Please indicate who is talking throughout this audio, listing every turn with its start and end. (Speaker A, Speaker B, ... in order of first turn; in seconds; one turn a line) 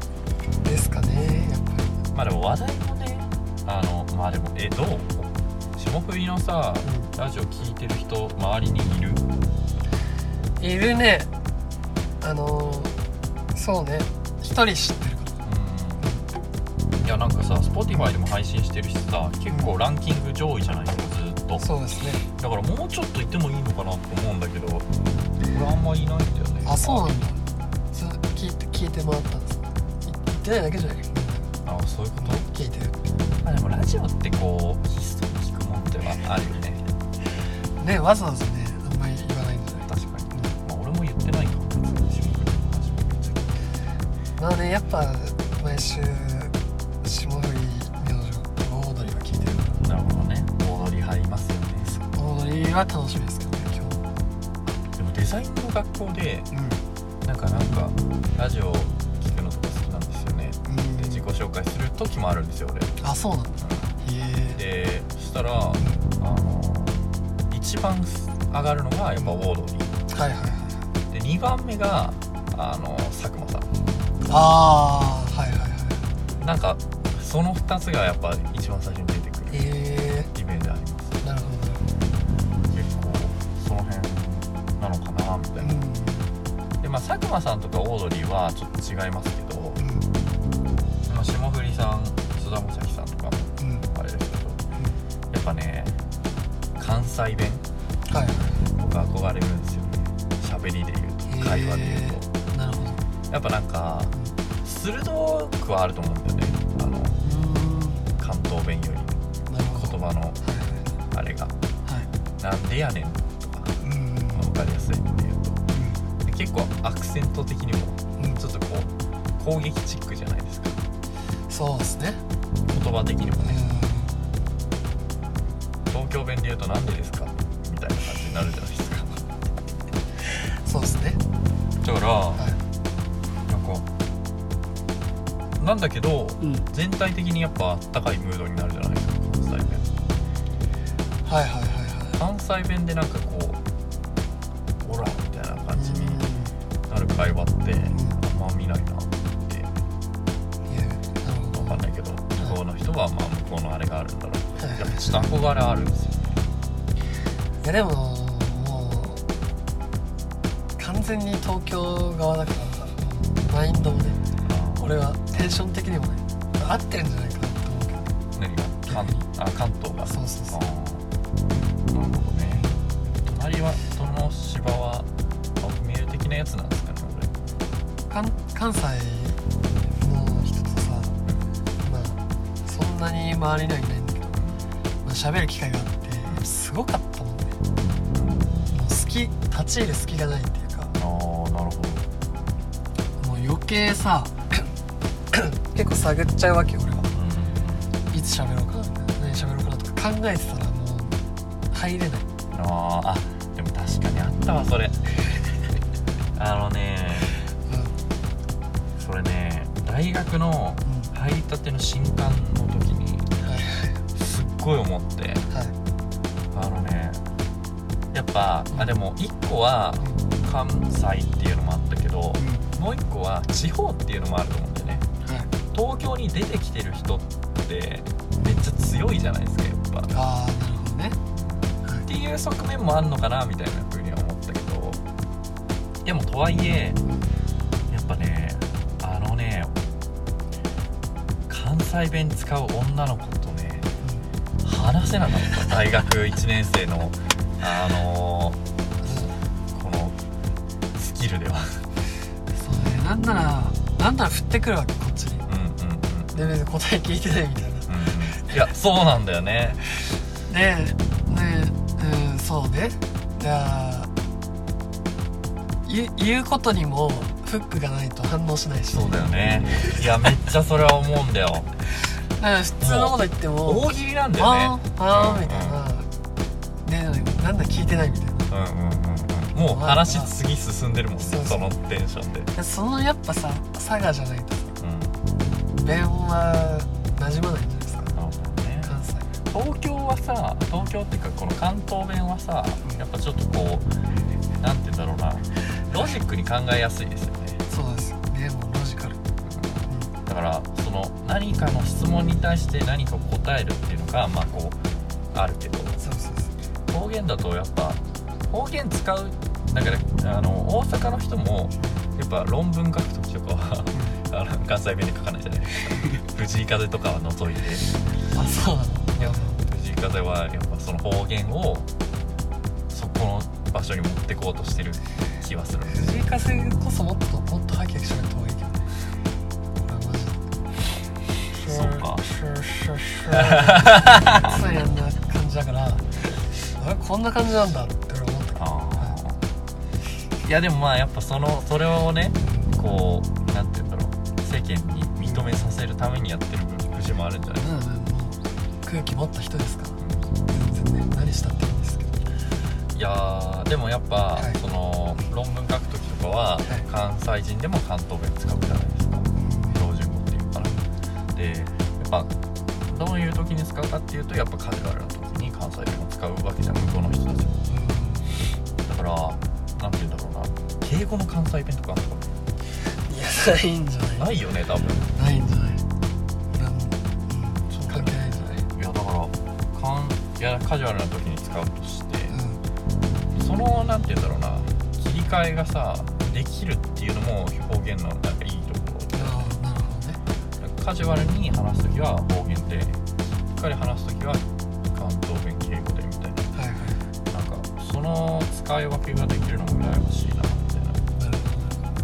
Speaker A: 0.6-1.9
Speaker B: 2.1-9.2
Speaker A: 6.8-7.1
Speaker A: 10.6-11.3
Speaker A: 12.2-12.9
Speaker A: 13.5-15.4
Speaker B: 15.4-16.1
Speaker B: 17.0-21.6
Speaker A: 21.6-22.2
Speaker B: 22.3-24.9
Speaker B: 25.5-27.3
Speaker A: 26.6-27.4
Speaker A: 27.9-31.5
Speaker B: 31.6-32.5
Speaker A: 32.2-33.0
Speaker B: 33.4-36.8
Speaker A: 37.8-40.5
Speaker B: 39.9-43.6
Speaker A: 44.4-49.8
Speaker B: 49.8-52.0
Speaker A: 52.1-54.0
Speaker B: 54.9-56.5
Speaker A: 56.5-56.8
Speaker B: 57.2-62.9
Speaker A: 60.7-61.2
Speaker A: 63.0-64.6
Speaker B: 63.6-63.9
Speaker B: 64.5-69.9
Speaker A: 70.1-70.8
Speaker B: 71.1-73.7
Speaker A: 74.3-76.1
Speaker B: 76.4-79.7
Speaker A: 79.5-80.3
Speaker B: 80.3-81.2
Speaker A: 81.2-81.8
Speaker B: 82.7-85.8
Speaker A: 85.6-86.3
Speaker B: 86.8-89.8
Speaker A: 89.8-90.1
Speaker B: 91.0-94.6
Speaker A: 93.6-93.9
Speaker B: 95.3-96.0
Speaker B: 96.8-97.6
Speaker A: 98.1-98.6
Speaker B: 98.7-102.3
Speaker A: 101.3-103.0
Speaker B: 103.3-104.1
Speaker B: 104.6-107.2
Speaker A: 107.2-108.0
Speaker B: 108.2-110.4
Speaker A: 109.5-111.0
Speaker B: 111.1-111.5
Speaker B: 112.4-113.8
Speaker A: 113.8-114.5
Speaker B: 114.3-115.6
Speaker A: 115.7-116.0
Speaker B: 116.2-120.8
Speaker A: 121.5-122.2
Speaker B: 122.7-123.6
Speaker A: 123.4-124.1
Speaker B: 125.9-129.3
Speaker A: 130.3-131.2
Speaker B: 131.8-132.4
Speaker B: 133.5-133.8
Speaker B: 135.6-139.9
Speaker A: 136.4-136.7
Speaker A: 141.2-142.2
Speaker B: 142.2-143.6
Speaker B: 144.8-146.2
Speaker A: 145.7-146.5
Speaker B: 146.9-149.7
Speaker A: 147.9-148.2
Speaker A: 150.7-151.8
Speaker B: 151.5-156.4
Speaker A: 154.6-155.3
Speaker A: 157.6-159.2
Speaker A: 160.8-164.2
Speaker B: 164.4-164.9
Speaker A: 164.8-168.1
Speaker B: 168.3-171.0
Speaker A: 168.9-169.2
Speaker A: 170.1-170.6
Speaker B: 171.9-172.7
Speaker B: 173.2-175.1
Speaker B: 175.6-177.3
Speaker A: 178.1-179.4
Speaker A: 180.0-181.1
Speaker A: 181.8-184.3
Speaker B: 184.3-184.6
Speaker A: 185.0-187.6
Speaker B: 188.1-188.8
Speaker A: 188.7-190.9
Speaker B: 190.9-192.1
Speaker A: 193.2-194.7
Speaker A: 195.3-197.1
Speaker B: 197.1-197.9
Speaker A: 198.1-201.2
Speaker A: 201.7-202.2
Speaker B: 202.5-205.0
Speaker B: 206.3-207.3
Speaker A: 207.7-207.9
Speaker B: 208.9-213.3
Speaker A: 210.8-211.1
Speaker A: 213.4-214.0
Speaker B: 214.1-215.5
Speaker A: 215.5-215.7
Speaker B: 216.5-217.2
Speaker B: 218.1-225.0
Speaker A: 222.4-222.7
Speaker A: 225.2-225.5
Speaker B: 225.7-230.1
Speaker A: 230.1-231.2
Speaker B: 231.3-235.0
Speaker B: 236.0-237.0
Speaker B: 237.9-239.8
Speaker B: 241.5-243.9
Speaker A: 244.0-244.3
Speaker B: 244.6-250.2
Speaker A: 249.0-249.3
Speaker B: 250.9-251.8
Speaker A: 252.5-255.4
Speaker B: 255.5-256.5
Speaker A: 256.3-258.5
Speaker B: 257.9-259.8
Speaker A: 260.5-264.1
Speaker A: 265.8-270.0
Speaker B: 268.9-271.7
Speaker A: 272.4-276.1
Speaker B: 272.8-275.8
Speaker A: 276.8-278.5
Speaker B: 278.5-282.5
Speaker A: 279.5-280.3
Speaker A: 281.2-281.7
Speaker A: 282.5-284.7
Speaker B: 284.8-285.2
Speaker A: 285.7-288.1
Speaker B: 288.1-288.9
Speaker A: 288.8-289.3
Speaker B: 289.4-293.9
Speaker B: 294.6-297.6
Speaker A: 297.7-299.2
Speaker B: 299.4-304.8
Speaker B: 305.3-306.0
Speaker A: 306.0-306.5
Speaker B: 306.9-318.0
Speaker A: 318.3-319.6
Speaker B: 319.2-321.9
Speaker B: 322.9-326.2
Speaker A: 325.9-328.8
Speaker A: 329.8-330.4
Speaker A: 331.5-336.0
Speaker B: 331.6-332.3
Speaker B: 333.3-334.6
Speaker A: 336.7-339.1
Speaker B: 338.6-339.4
Speaker B: 340.4-347.7
Speaker A: 342.4-342.7
Speaker A: 347.6-352.2
Speaker B: 350.0-350.4
Speaker B: 352.9-360.8
Speaker A: 359.4-359.8
Speaker B: 361.3-367.6
Speaker A: 367.7-368.3
Speaker B: 368.8-372.3
Speaker A: 372.8-374.3
Speaker B: 374.2-375.1
Speaker A: 375.1-375.8
Speaker A: 376.5-378.6
Speaker B: 377.7-382.3
Speaker A: 382.3-382.6
Speaker B: 383.3-389.5
Speaker A: 389.1-390.2
Speaker B: 390.6-396.5
Speaker A: 396.5-397.0
Speaker B: 397.2-401.0
Speaker A: 401.2-401.8